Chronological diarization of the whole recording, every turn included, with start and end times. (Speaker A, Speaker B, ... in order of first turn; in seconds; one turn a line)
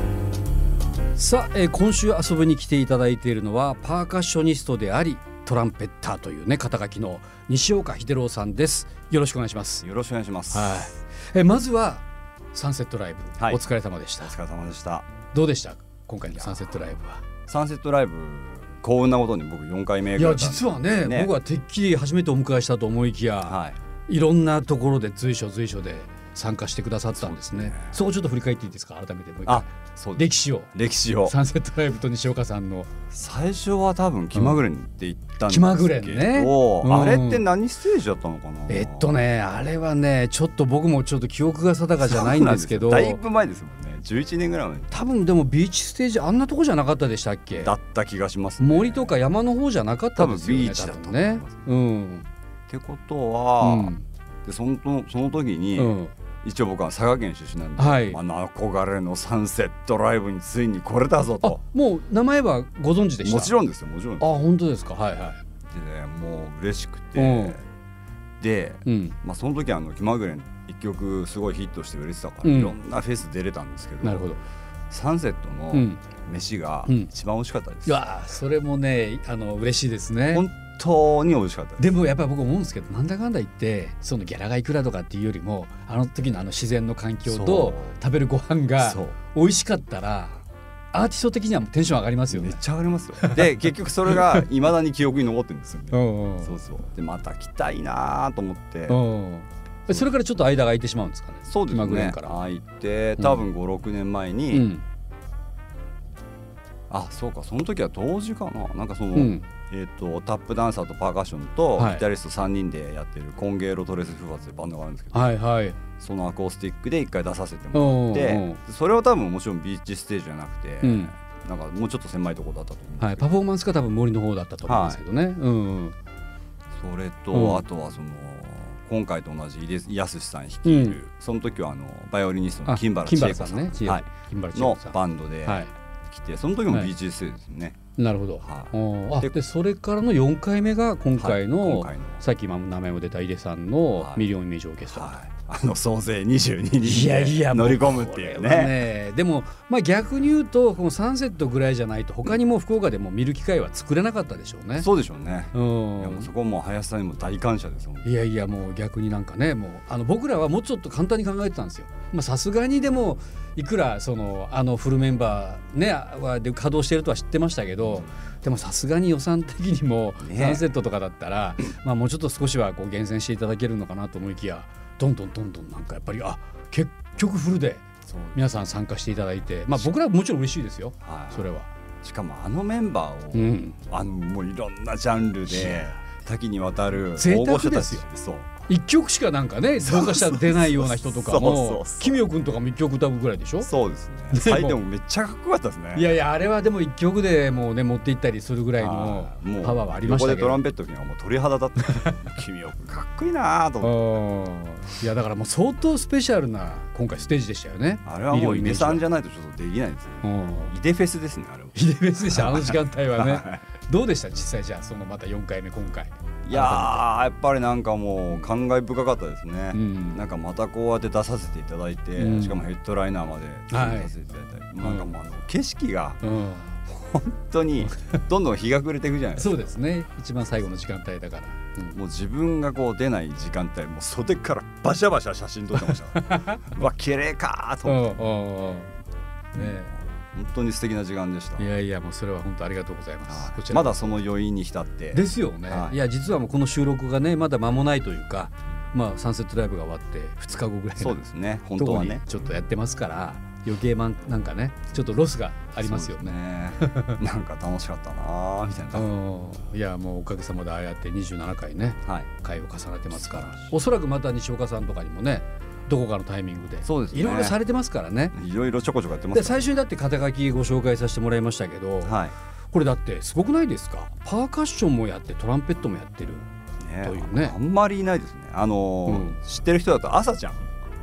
Speaker A: 1.1-9.8
Speaker B: 9.8-10.9
Speaker A: 10.5-14.3
Speaker B: 14.2-15.1
Speaker A: 15.3-17.2
Speaker B: 16.3-16.8
Speaker B: 17.5-21.3
Speaker A: 20.1-30.7
Speaker B: 23.4-23.8
Speaker B: 27.1-28.0
Speaker B: 29.4-31.3
Speaker A: 31.2-32.9
Speaker B: 33.1-39.2
Speaker A: 34.3-34.6
Speaker A: 35.5-37.4
Speaker A: 38.7-43.2
Speaker B: 42.0-44.9
Speaker A: 44.9-47.7
Speaker B: 47.6-49.2
Speaker A: 48.6-52.3
Speaker B: 50.1-51.5
Speaker B: 52.7-53.9
Speaker A: 53.6-54.0
Speaker B: 54.4-61.6
Speaker A: 55.8-56.1
Speaker A: 57.8-58.2
Speaker A: 61.4-63.5
Speaker B: 63.2-64.3
Speaker A: 64.2-65.4
Speaker B: 65.7-67.6
Speaker A: 67.2-67.6
Speaker B: 68.4-74.3
Speaker A: 68.8-69.2
Speaker A: 72.4-72.8
Speaker A: 74.0-74.4
Speaker B: 74.9-78.0
Speaker A: 75.7-76.0
Speaker A: 77.8-80.5
Speaker B: 80.3-81.9
Speaker A: 81.8-90.4
Speaker B: 87.2-88.0
Speaker B: 88.8-89.2
Speaker A: 90.9-92.6
Speaker B: 92.3-99.0
Speaker A: 93.2-93.5
Speaker A: 94.1-94.4
Speaker A: 95.9-96.5
Speaker A: 98.9-102.4
Speaker B: 101.5-104.7
Speaker A: 103.2-103.4
Speaker A: 104.5-104.8
Speaker B: 106.9-115.2
Speaker A: 109.1-109.5
Speaker A: 111.8-112.0
Speaker A: 115.1-115.8
Speaker B: 116.0-123.3
Speaker A: 117.7-118.6
Speaker A: 120.8-121.1
Speaker A: 123.0-126.0
Speaker B: 124.7-125.0
Speaker B: 126.8-137.8
Speaker A: 127.3-127.6
Speaker A: 130.6-131.0
Speaker A: 132.7-135.7
Speaker A: 138.0-145.2
Speaker B: 138.4-139.3
Speaker B: 141.2-142.2
Speaker B: 143.9-144.2
Speaker B: 144.9-148.8
Speaker A: 146.8-154.9
Speaker B: 154.8-158.1
Speaker A: 155.5-156.3
Speaker A: 158.0-181.7
Speaker B: 167.8-168.2
Speaker B: 170.2-170.7
Speaker B: 178.1-178.5
Speaker B: 181.0-181.5
Speaker B: 182.0-188.7
Speaker A: 183.3-183.8
Speaker A: 185.5-185.9
Speaker A: 187.1-188.0
Speaker A: 188.7-193.7
Speaker B: 189.8-192.2
Speaker B: 193.6-196.1
Speaker A: 194.3-194.8
Speaker A: 195.9-200.6
Speaker B: 198.8-204.0
Speaker A: 203.8-209.0
Speaker B: 208.0-213.6
Speaker A: 210.2-210.7
Speaker A: 211.7-217.0
Speaker B: 216.4-226.2
Speaker A: 219.7-220.2
Speaker A: 222.2-222.6
Speaker A: 223.7-224.1
Speaker A: 224.8-225.1
Speaker A: 226.2-226.7
Speaker B: 226.9-229.7
Speaker A: 227.9-228.2
Speaker A: 229.3-232.0
Speaker B: 231.9-238.2
Speaker A: 236.2-236.7
Speaker A: 237.8-238.9
Speaker A: 239.5-239.9
Speaker B: 239.5-241.7
Speaker A: 241.6-244.2
Speaker B: 243.3-246.0
Speaker A: 245.1-251.2
Speaker B: 251.0-252.2
Speaker A: 251.7-257.1
Speaker B: 255.8-259.1
Speaker A: 258.9-268.3
Speaker B: 263.1-263.8
Speaker B: 266.8-267.6
Speaker B: 268.3-269.6
Speaker A: 269.3-272.2
Speaker B: 272.0-272.3
Speaker A: 272.7-276.4
Speaker B: 276.8-280.8
Speaker A: 277.0-277.6
Speaker A: 279.1-279.4